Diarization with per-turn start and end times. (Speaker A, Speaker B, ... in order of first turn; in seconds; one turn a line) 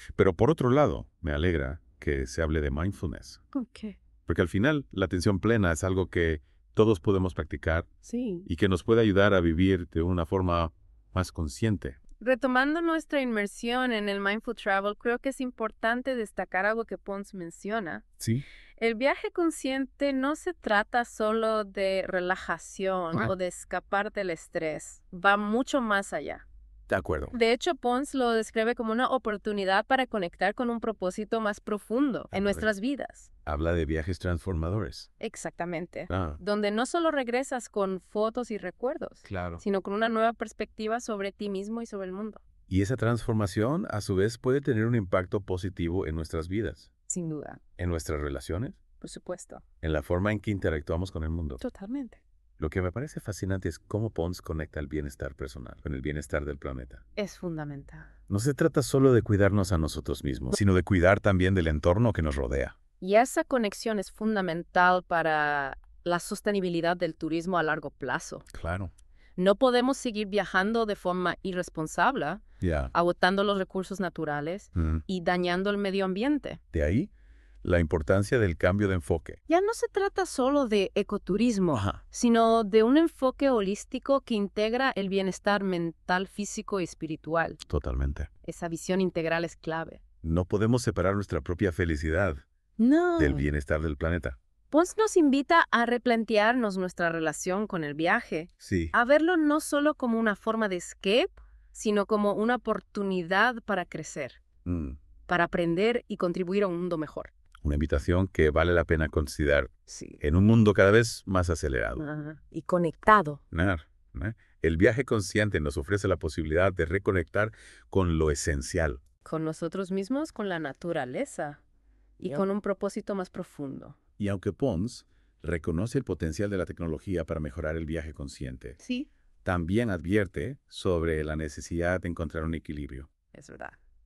Speaker A: 0.2-3.4
Speaker B: 3.5-4.0
Speaker A: 4.2-7.9
Speaker B: 8.0-8.5
Speaker A: 8.4-12.0
Speaker B: 12.2-18.0
Speaker A: 18.2-18.4
Speaker B: 18.8-26.4
Speaker A: 26.9-27.3
Speaker B: 27.3-33.3
Speaker A: 32.3-32.7
Speaker A: 33.5-35.1
Speaker B: 35.2-42.4
Speaker A: 36.1-36.4
Speaker A: 39.2-39.6
Speaker A: 42.7-46.9
Speaker B: 47.1-47.6
Speaker A: 47.8-48.8
Speaker B: 49.0-49.6
Speaker A: 49.8-51.6
Speaker B: 51.6-52.2
Speaker A: 52.6-57.0
Speaker B: 57.1-58.1
Speaker A: 58.3-62.7
Speaker B: 63.0-68.5
Speaker A: 68.5-68.9
Speaker B: 69.4-72.4
Speaker A: 72.6-72.9
Speaker B: 72.9-76.6
Speaker A: 74.7-75.0
Speaker A: 76.7-77.1
Speaker A: 77.6-79.4
Speaker B: 79.5-87.6
Speaker A: 81.7-82.0
Speaker A: 87.6-88.3
Speaker B: 88.4-90.0
Speaker A: 90.2-92.4
Speaker B: 92.8-93.5
Speaker A: 93.2-94.4
Speaker B: 94.7-104.4
Speaker A: 98.6-98.9
Speaker A: 104.6-105.0
Speaker B: 105.3-107.3
Speaker A: 107.6-109.7
Speaker B: 109.9-110.2
Speaker A: 110.2-112.0
Speaker B: 112.0-113.4
Speaker A: 113.5-119.0
Speaker B: 119.2-121.6
Speaker B: 122.2-124.0
Speaker A: 124.2-128.8
Speaker B: 128.8-129.1
Speaker A: 129.4-133.1
Speaker B: 133.3-133.8